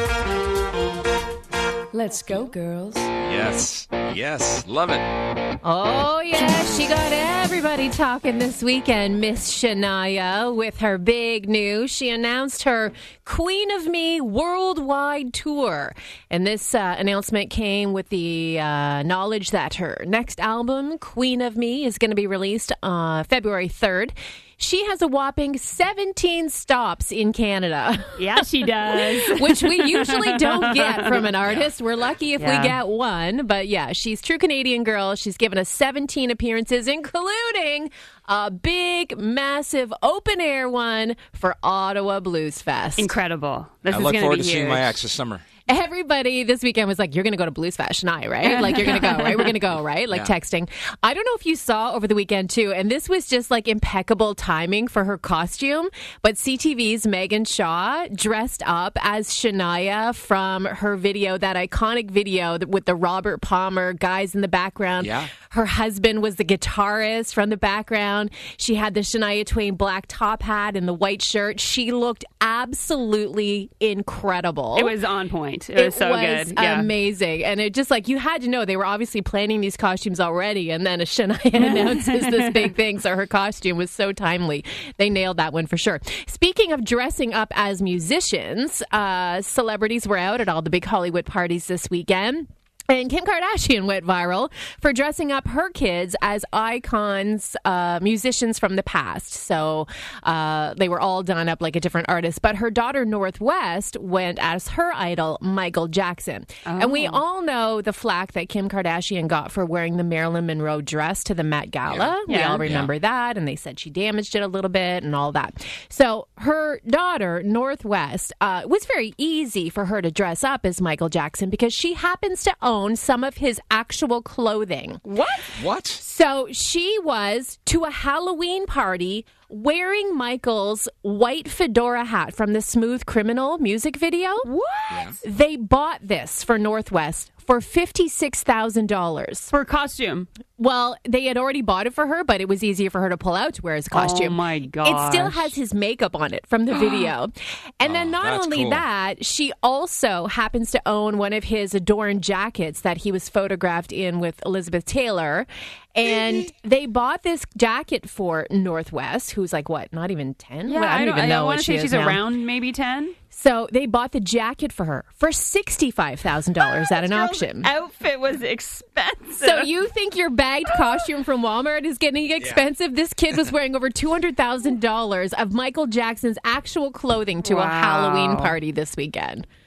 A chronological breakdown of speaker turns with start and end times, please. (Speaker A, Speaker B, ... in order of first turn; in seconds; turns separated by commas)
Speaker A: 2.1-2.4, Speaker B: 2.2-2.9, Speaker C: 3.2-5.1, Speaker A: 5.6-43.1, Speaker B: 28.2-31.2, Speaker C: 31.4-31.7, Speaker B: 32.4-32.8, Speaker B: 43.0-44.9, Speaker C: 43.9-45.5, Speaker A: 45.7-74.9, Speaker B: 48.4-49.5, Speaker C: 65.0-65.3, Speaker B: 74.8-76.9, Speaker A: 75.8-125.0, Speaker B: 81.6-82.7, Speaker B: 106.7-107.2, Speaker C: 111.9-112.9, Speaker B: 112.3-112.6, Speaker B: 125.1-125.5, Speaker C: 125.6-126.0, Speaker A: 126.0-134.5, Speaker B: 134.4-135.2, Speaker C: 134.9-135.2, Speaker A: 135.2-139.5, Speaker B: 139.5-140.3, Speaker A: 140.6-162.2, Speaker B: 143.9-145.5, Speaker B: 146.8-147.0, Speaker C: 147.8-148.8, Speaker B: 160.7-163.2, Speaker A: 163.3-167.7, Speaker B: 166.8-169.7, Speaker A: 169.4-179.5, Speaker B: 177.4-178.6